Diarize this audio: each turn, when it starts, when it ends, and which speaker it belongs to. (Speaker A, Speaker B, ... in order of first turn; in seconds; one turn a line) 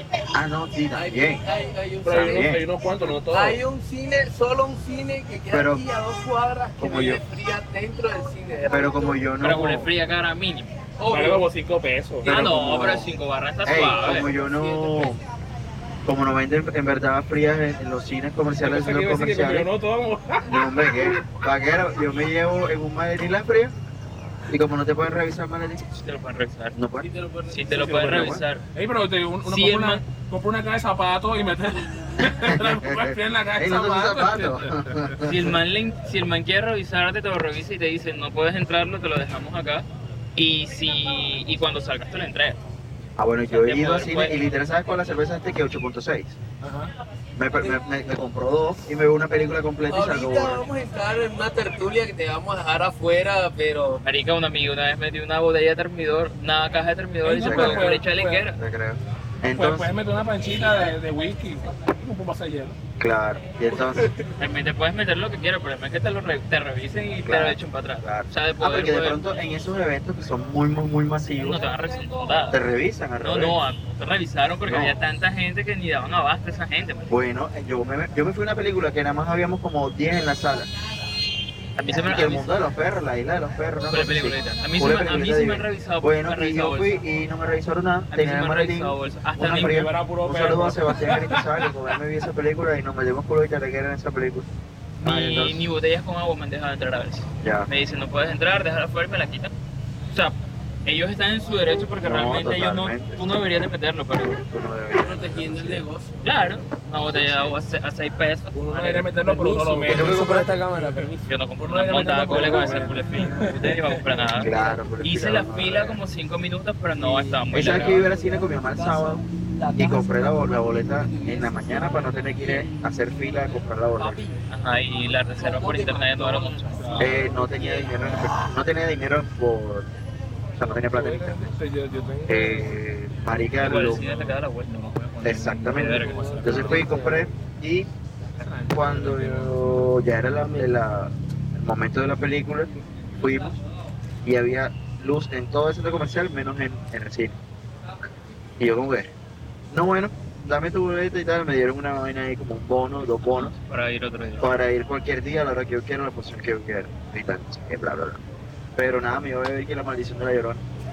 Speaker A: 0.3-1.4
Speaker B: 0.9-9.2
Speaker C: 2.0-3.6
Speaker A: 2.1-2.6
Speaker A: 5.5-5.8
Speaker A: 6.8-7.2
Speaker A: 8.7-9.9
Speaker D: 9.4-10.7
Speaker B: 11.0-11.4
Speaker C: 11.1-12.4
Speaker D: 12.2-14.3
Speaker A: 12.2-15.2
Speaker B: 13.7-15.1
Speaker A: 16.0-19.7
Speaker C: 18.6-21.2
Speaker A: 20.4-23.7
Speaker A: 24.5-26.0
Speaker D: 26.0-26.8
Speaker A: 26.7-27.1
Speaker B: 27.0-27.9
Speaker D: 27.5-28.6
Speaker C: 27.7-35.1
Speaker A: 28.0-28.4
Speaker D: 29.4-30.0
Speaker A: 32.2-35.5
Speaker D: 35.2-42.6
Speaker A: 43.2-46.4
Speaker D: 43.5-44.4
Speaker C: 46.6-46.9
Speaker A: 47.4-50.7
Speaker B: 49.9-54.0
Speaker D: 54.0-58.6
Speaker C: 57.2-58.5
Speaker A: 57.3-58.0
Speaker A: 58.5-59.9
Speaker C: 59.5-62.8
Speaker A: 63.0-64.1
Speaker D: 64.4-69.2
Speaker A: 67.2-71.6
Speaker D: 71.4-72.6
Speaker A: 72.5-73.6
Speaker D: 73.2-77.1
Speaker A: 74.7-75.0
Speaker A: 77.1-80.7
Speaker D: 81.8-82.6
Speaker A: 81.9-94.5
Speaker D: 83.9-87.0
Speaker D: 88.1-89.8
Speaker C: 89.4-91.7
Speaker D: 95.0-99.5
Speaker A: 95.0-95.6
Speaker A: 97.4-97.7
Speaker D: 100.1-104.4
Speaker A: 102.0-103.4
Speaker A: 104.5-105.8
Speaker B: 105.0-106.6
Speaker D: 106.2-109.2
Speaker A: 107.2-107.5
Speaker C: 108.5-114.2
Speaker B: 109.2-111.3
Speaker A: 109.9-110.5
Speaker D: 111.3-118.0
Speaker B: 112.2-113.0
Speaker A: 114.3-116.0
Speaker B: 114.4-114.8
Speaker B: 117.0-124.4
Speaker A: 117.5-119.2
Speaker A: 119.8-124.2
Speaker D: 124.5-127.1
Speaker B: 125.3-128.4
Speaker C: 126.8-127.2
Speaker A: 127.0-129.9
Speaker A: 130.6-131.4
Speaker C: 130.6-132.8
Speaker A: 132.3-134.0
Speaker D: 133.6-136.8
Speaker C: 133.6-134.4
Speaker C: 134.9-137.2
Speaker A: 135.2-137.9
Speaker B: 136.0-137.3
Speaker C: 138.4-140.1
Speaker A: 138.7-143.6
Speaker B: 140.4-140.7
Speaker A: 144.2-147.4
Speaker A: 148.6-149.1
Speaker A: 149.7-153.5
Speaker D: 153.3-154.5
Speaker A: 154.4-158.2
Speaker A: 158.8-160.6